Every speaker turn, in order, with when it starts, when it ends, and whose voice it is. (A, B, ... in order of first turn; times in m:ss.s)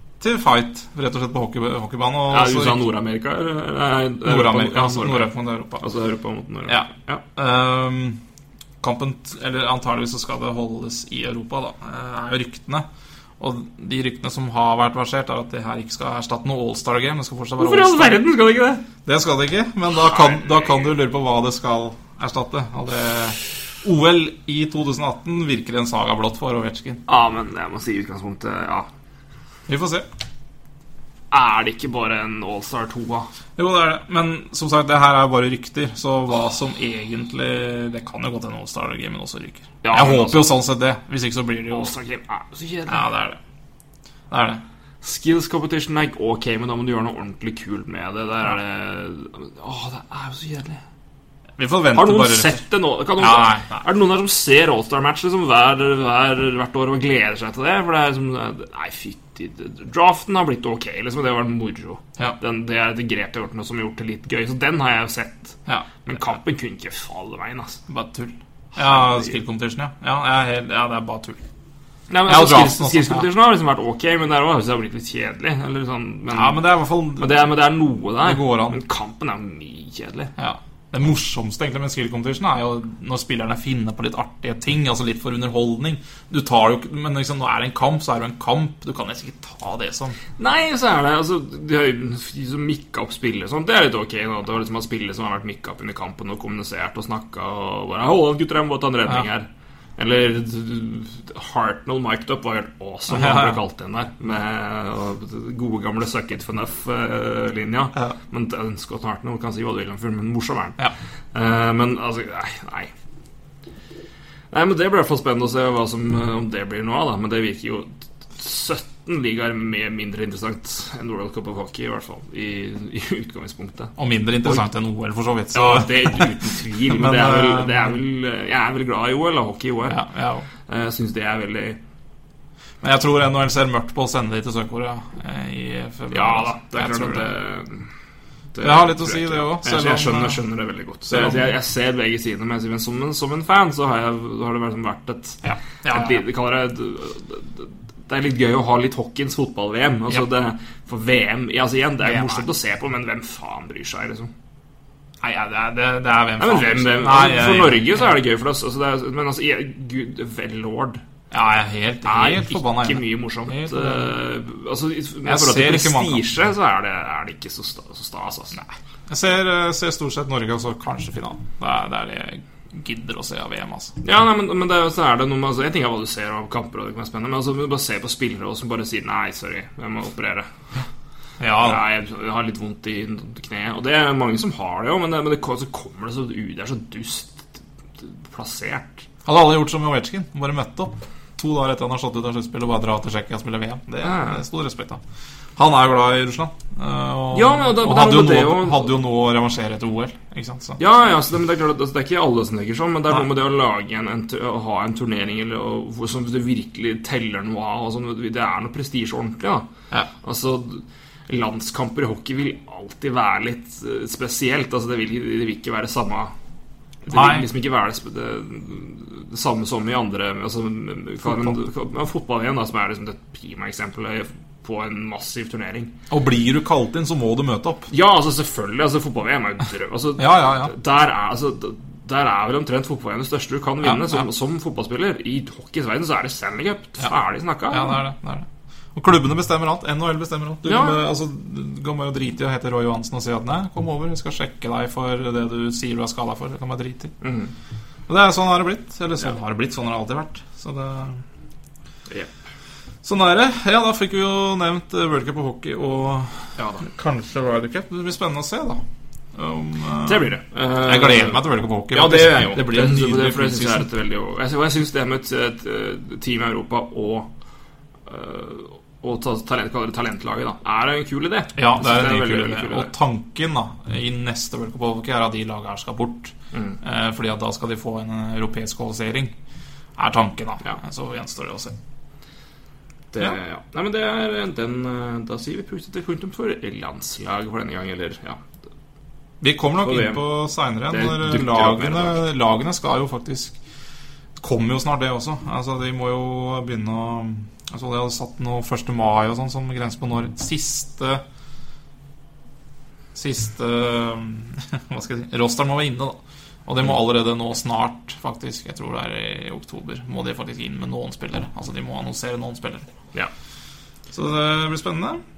0:00.2-0:02.8 A
0:02.3-0:07.2 B
0:04.2-0:05.8 A
0:06.7-0:08.2 A
0:08.8-0:12.8 A
0:13.4-0:18.2 A
0:17.6-0:18.8 B
0:19.0-0:27.0 A
0:20.0-0:20.8 B
0:27.1-0:28.9 B
0:29.7-0:30.1 A
0:31.3-0:33.3 B
0:33.6-0:41.9 A
0:39.8-0:40.5 B
0:41.7-0:43.0 B
0:42.9-0:43.4 A
0:44.3-0:44.6 A
0:45.0-0:50.8 B
0:51.6-0:52.6 A
0:51.9-1:07.8 B
0:53.2-0:53.8 A
1:05.6-1:06.2 A
1:07.9-1:11.4 A
1:08.8-1:09.4 B
1:12.1-1:16.6 B
1:12.2-1:13.3 A
1:16.3-1:17.4 A
1:17.2-1:20.3 B
1:18.2-1:18.8 A
1:20.4-1:30.2 A
1:30.4-1:52.9 B
1:43.1-1:43.6 A
1:54.5-2:04.6 B
2:04.0-2:08.0 A
2:05.5-2:10.0 B
2:09.9-2:10.5 A
2:10.6-2:11.8 B
2:12.8-2:17.3 A
2:16.1-2:17.9 B
2:18.5-2:34.3 B
2:18.6-2:20.4 A
2:21.1-2:21.5 A
2:25.4-2:26.2 A
2:32.0-2:32.4 A
2:35.2-2:38.2 A
2:36.4-2:41.0 B
2:41.3-2:44.1 A
2:42.0-2:48.6 B
2:45.2-2:46.2 A
2:48.5-2:54.0 A
2:54.0-3:00.5 B
3:01.4-3:01.8 A
3:01.6-3:09.0 B
3:09.2-3:15.0 A
3:14.0-3:14.4 B
3:15.6-3:20.8 A
3:17.3-3:18.9 B
3:20.8-3:29.7 B
3:30.2-3:36.3 B
3:37.1-3:37.5 A
3:37.1-3:45.9 B
3:41.2-3:41.6 A
3:46.1-3:47.9 A
3:47.9-3:58.0 B
3:50.2-3:50.7 A
3:53.8-3:54.2 A
3:57.7-4:07.1 A
4:00.6-4:01.0 B
4:07.2-4:07.5 B
4:08.1-4:11.2 A
4:13.0-4:18.8 A
4:16.6-4:16.8 B
4:19.3-4:23.9 A
4:20.0-4:27.3 B
4:28.0-4:32.9 B
4:31.6-4:39.3 A
4:36.5-4:36.8 B
4:40.0-4:41.7 A
4:43.1-4:48.4 B
4:49.4-4:53.6 A
4:49.8-4:50.2 B
4:50.9-4:52.2 B
4:54.4-5:01.2 A
5:03.1-5:12.9 A
5:14.1-5:15.2 A